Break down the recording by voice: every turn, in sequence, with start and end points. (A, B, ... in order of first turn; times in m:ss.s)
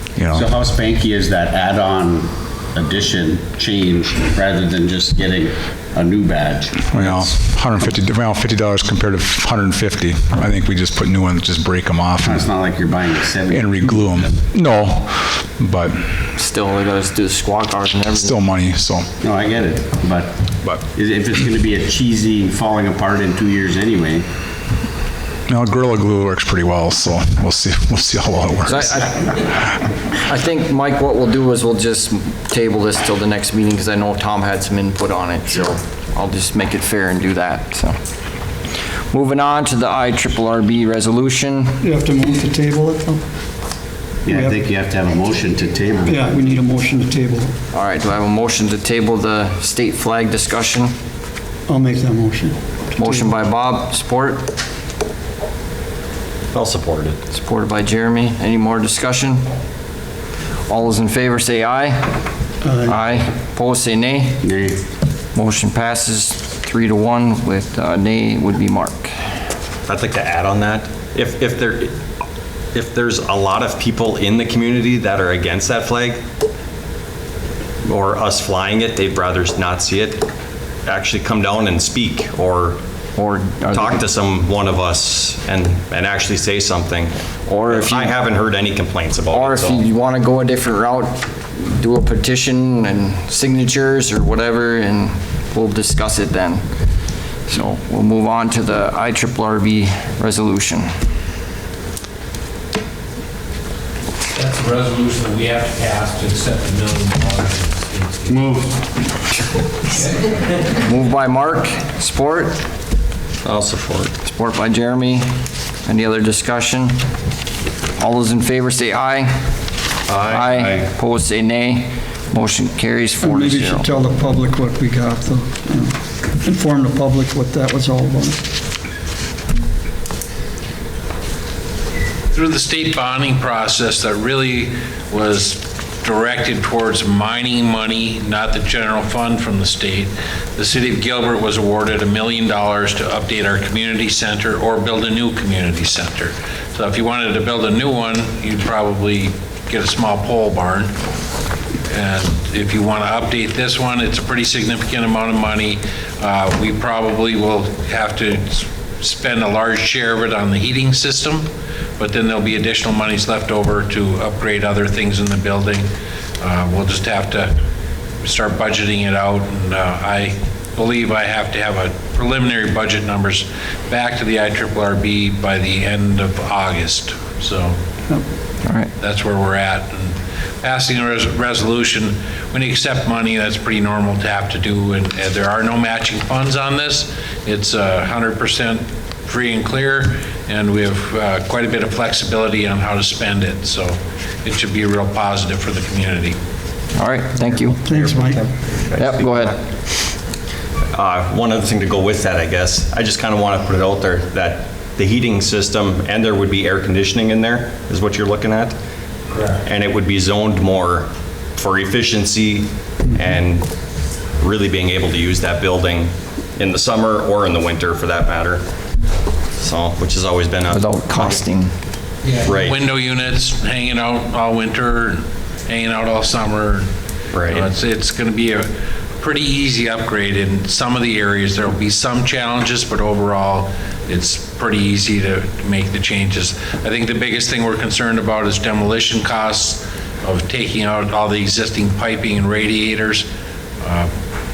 0:00.2-0:00.5 A
0:00.3-0:07.3 B
0:06.9-0:12.5 A
0:12.2-0:14.4 B
0:13.5-0:16.0 A
0:16.3-0:18.4 C
0:18.2-0:19.1 A
0:19.2-0:24.2 B
0:25.5-0:29.0 A
0:28.6-0:29.4 C
0:30.1-0:38.0 C
0:39.1-0:41.8 C
0:41.8-0:43.2 D
0:44.2-0:46.4 B
0:46.2-0:47.5 D
0:47.7-0:50.9 C
0:51.7-0:53.2 D
0:53.0-0:54.5 C
0:56.5-0:57.2 E
0:57.3-0:59.4 C
1:00.7-1:02.1 C
1:02.6-1:02.9 D
1:02.8-1:04.4 C
1:04.4-1:04.8 B
1:05.3-1:09.1 C
1:09.9-1:11.9 E
1:12.7-1:16.2 E
1:17.8-1:20.3 E
1:20.8-1:22.8 E
1:23.2-1:24.0 C
1:23.7-1:27.1 E
1:27.4-1:28.3 C
1:27.7-1:29.8 E
1:29.3-1:36.6 C
1:37.5-1:40.9 C
1:44.3-1:48.4 F
1:48.3-1:48.8 B
1:49.9-1:50.6 F
1:50.8-1:52.6 C
1:53.4-1:54.1 E
1:54.2-1:55.3 C
1:55.8-1:57.0 C
1:58.0-1:59.4 C
2:00.1-2:00.9 E
2:00.3-2:03.9 C
2:03.4-2:05.9 D
2:06.4-2:08.4 D
2:12.3-2:30.9 F
2:31.9-2:45.9 F
2:46.4-2:47.6 F
2:48.2-2:57.7 F
2:58.6-2:58.9 C
2:59.0-3:16.4 F
3:17.0-3:17.8 C
3:17.9-3:19.5 E
3:17.9-3:18.4 D
3:18.9-3:19.6 C
3:20.9-3:28.8 E
3:29.3-3:29.6 F
3:29.6-3:33.7 E
3:34.4-3:38.6 E
3:39.6-3:41.4 E
3:40.7-3:41.7 C
3:42.2-3:46.8 F
3:42.4-3:42.8 E
3:47.3-3:47.7 E
3:47.5-3:48.7 F
3:49.2-4:03.3 F
4:03.8-4:04.1 F